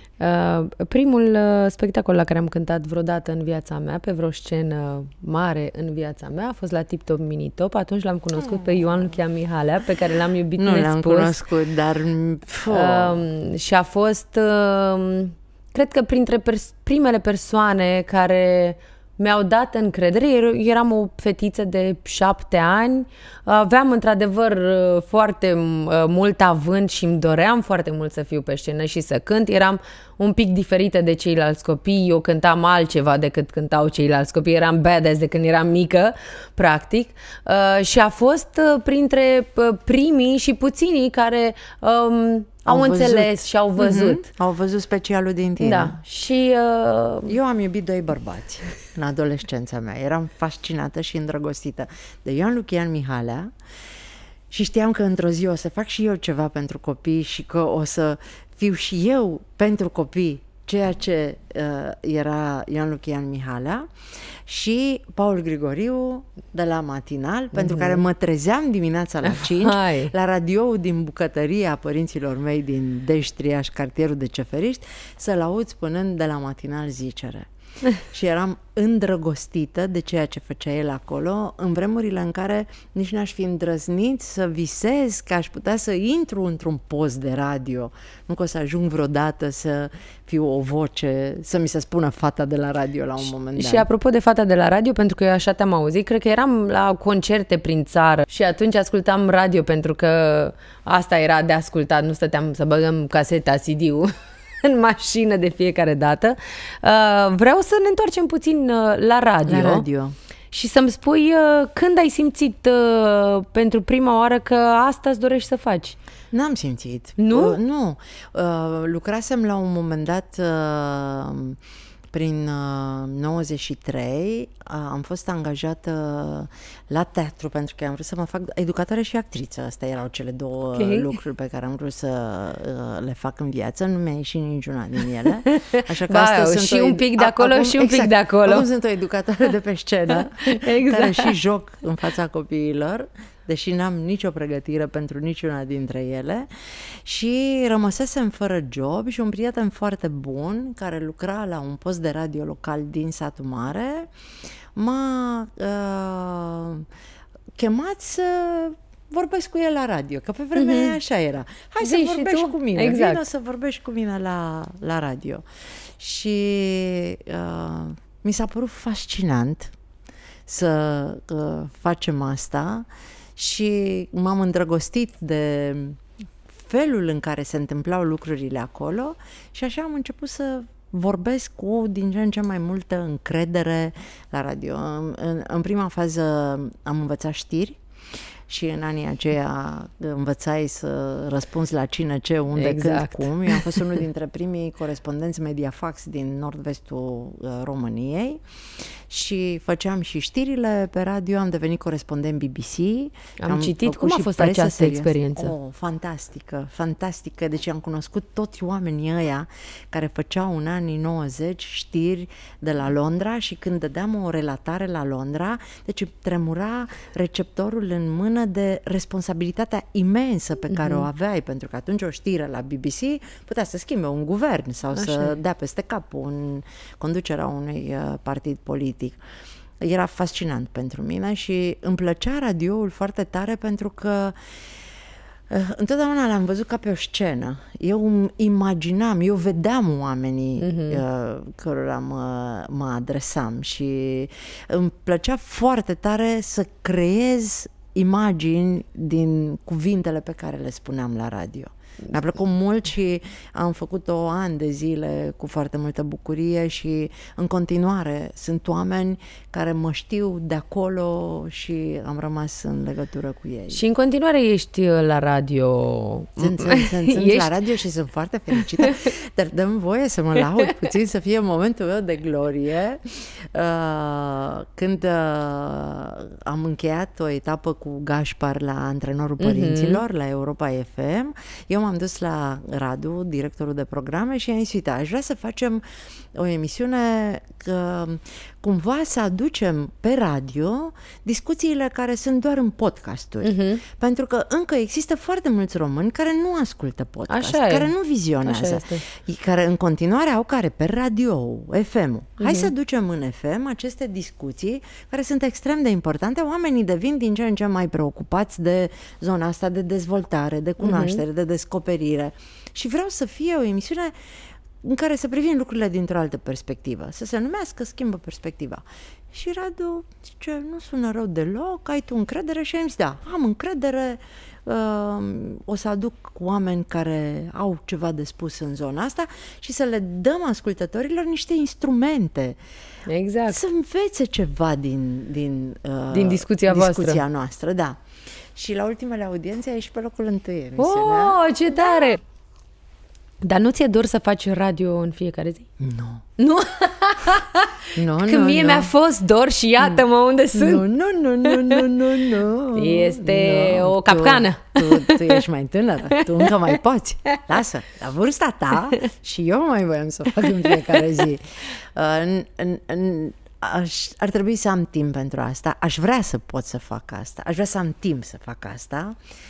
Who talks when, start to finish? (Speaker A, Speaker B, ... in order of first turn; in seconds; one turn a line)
Speaker A: 0.2-11.4
Speaker B: 8.4-9.1
Speaker B: 10.6-13.2
Speaker A: 12.7-44.3
Speaker B: 42.6-46.0
Speaker A: 45.6-47.4
Speaker B: 47.3-53.5
Speaker B: 54.5-93.8
Speaker A: 67.5-68.0
Speaker A: 69.3-70.1
Speaker A: 93.5-109.8
Speaker B: 109.5-110.1
Speaker A: 110.5-116.0
Speaker B: 116.3-121.6
Speaker A: 117.2-117.6
Speaker B: 122.1-154.1
Speaker A: 130.7-131.1
Speaker A: 135.5-138.7
Speaker A: 140.4-141.3
Speaker B: 154.7-156.9
Speaker B: 157.5-169.7
Speaker A: 160.5-160.9
Speaker A: 161.8-163.2
Speaker B: 170.5-229.2
Speaker A: 192.5-193.8
Speaker A: 203.4-205.5
Speaker A: 220.7-221.0
Speaker A: 224.9-225.4
Speaker B: 229.8-234.6
Speaker B: 235.5-263.8
Speaker A: 240.6-241.0
Speaker A: 263.7-267.5
Speaker B: 266.4-285.8
Speaker A: 279.4-280.0
Speaker B: 286.3-332.6
Speaker A: 293.4-293.8
Speaker A: 297.3-297.9
Speaker A: 298.4-299.1
Speaker A: 302.4-302.7
Speaker A: 310.8-311.2
Speaker A: 333.1-333.6
Speaker B: 333.5-338.0
Speaker A: 336.1-337.2
Speaker B: 338.5-342.1
Speaker A: 340.8-342.2
Speaker A: 343.4-345.7
Speaker B: 345.8-346.3
Speaker A: 346.4-350.8
Speaker B: 347.9-348.9
Speaker B: 350.5-369.2
Speaker A: 351.4-351.9
Speaker A: 352.7-355.4
Speaker A: 356.1-356.7
Speaker A: 360.6-361.2